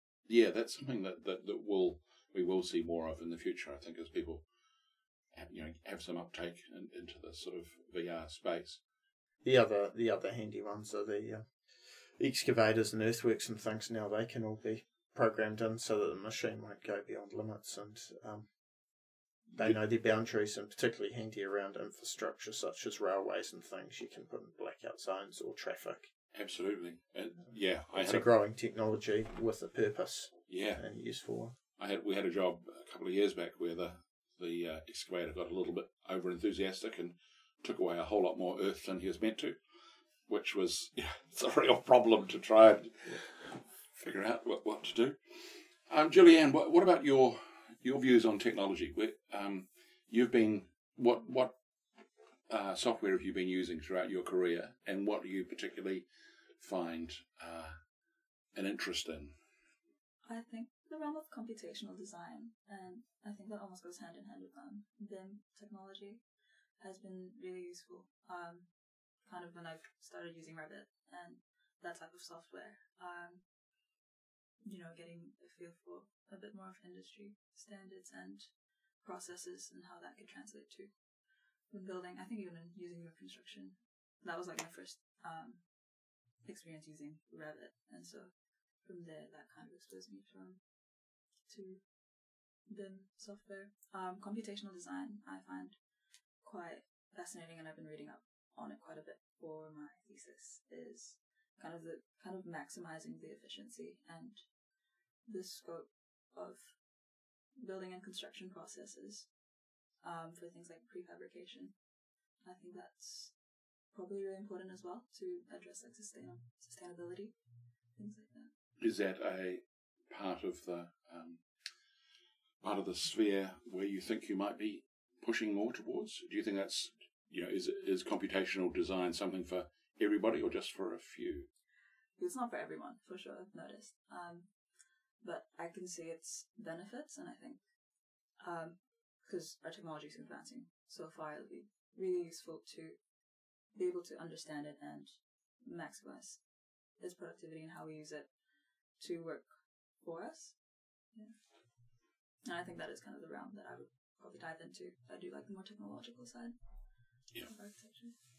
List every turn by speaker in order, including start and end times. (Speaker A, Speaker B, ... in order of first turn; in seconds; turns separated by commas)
Speaker A: 0.3-4.5, Speaker A: 5.3-8.8, Speaker B: 9.4-18.6, Speaker B: 19.6-26.1, Speaker A: 26.3-28.3, Speaker B: 27.9-31.6, Speaker A: 30.5-30.9, Speaker A: 31.8-39.6, Speaker A: 40.3-51.5, Speaker A: 52.5-56.1, Speaker A: 56.6-57.8, Speaker A: 58.5-59.4, Speaker C: 60.2-73.5, Speaker C: 74.6-118.5, Speaker A: 118.8-121.5, Speaker A: 122.6-131.5, Speaker C: 132.2-158.2, Speaker A: 157.3-158.2